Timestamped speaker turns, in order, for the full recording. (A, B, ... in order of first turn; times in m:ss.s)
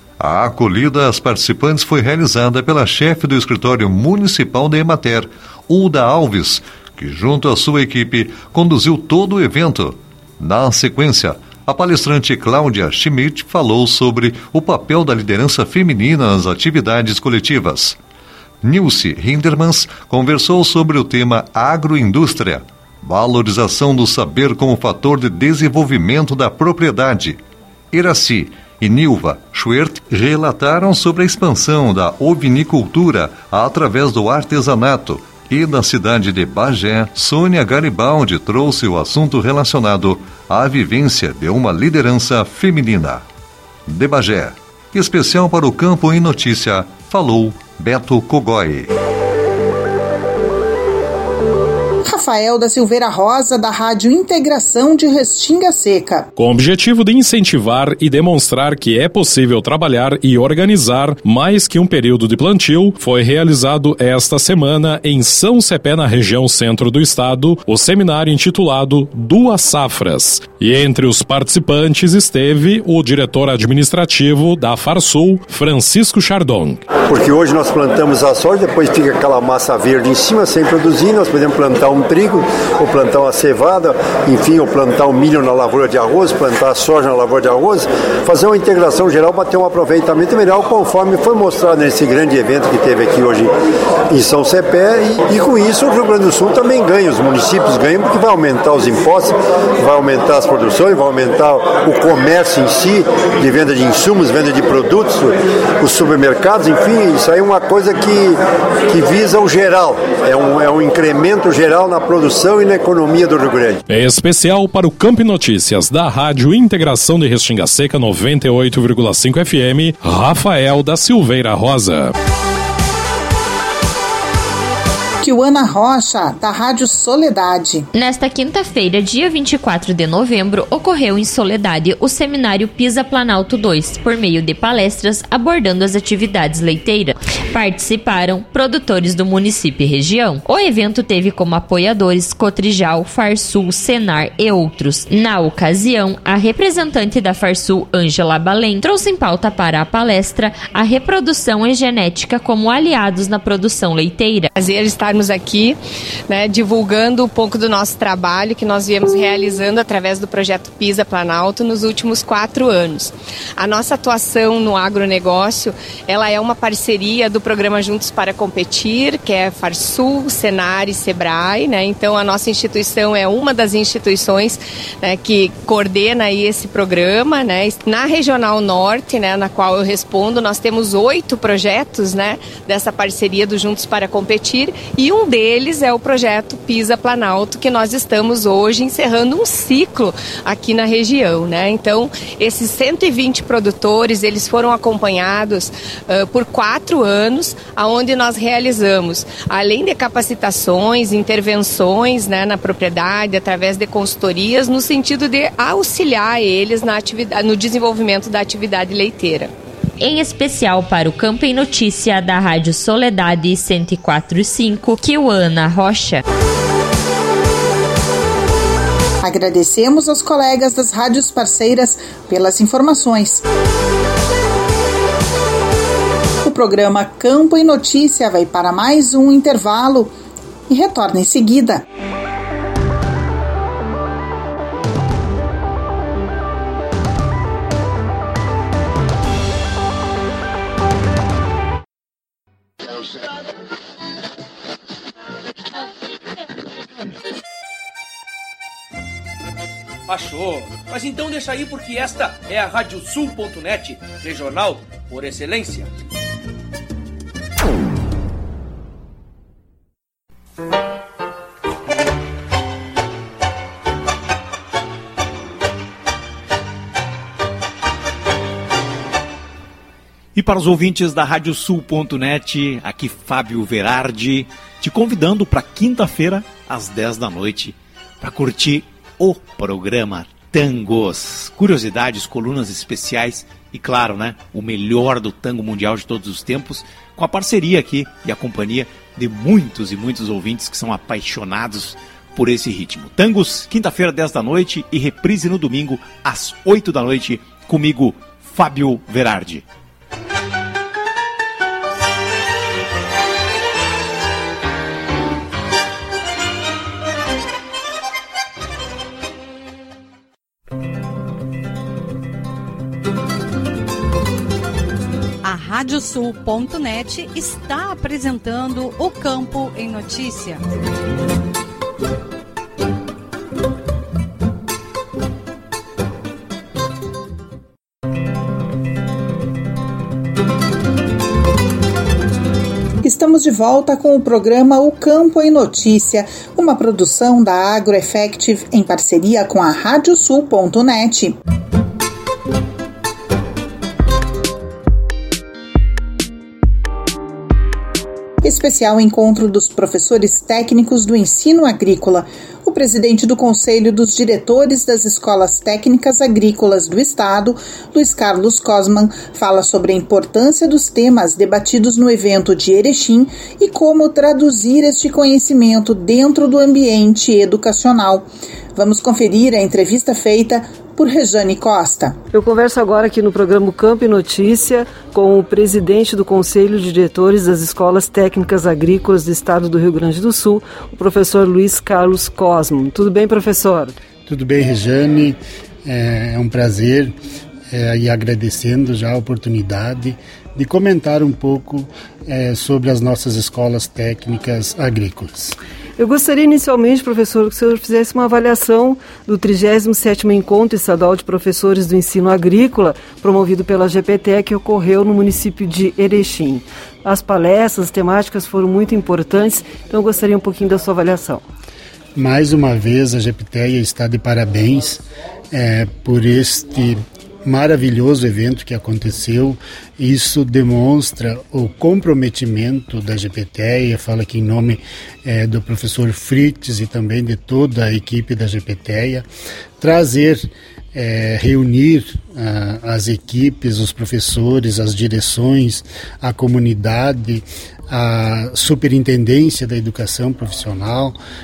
0:00.2-0:18.0 A
0:18.6-0:27.4 A
0:27.9-0:43.2 A
0:43.9-0:48.9 A
0:52.1-0:56.3 B
0:56.4-1:16.9 C
1:17.0-1:33.5 D
1:34.1-1:53.8 D
1:53.9-2:02.1 C
2:05.2-2:07.9 B
2:07.9-2:34.5 E
2:34.6-3:29.5 F
3:30.0-3:36.2 E
3:39.2-3:43.4 B
3:46.4-3:50.2 B
3:50.7-3:51.8 B
4:10.1-4:15.9 G
4:30.4-4:59.6 H
5:15.4-5:20.6 I
5:33.0-5:41.4 B
5:48.4-6:12.2 B
6:12.3-6:24.0 J
6:24.3-6:27.1 K
6:27.7-6:35.6 K
6:36.0-6:51.4 J
6:52.2-7:09.2 K
7:09.8-7:21.2 K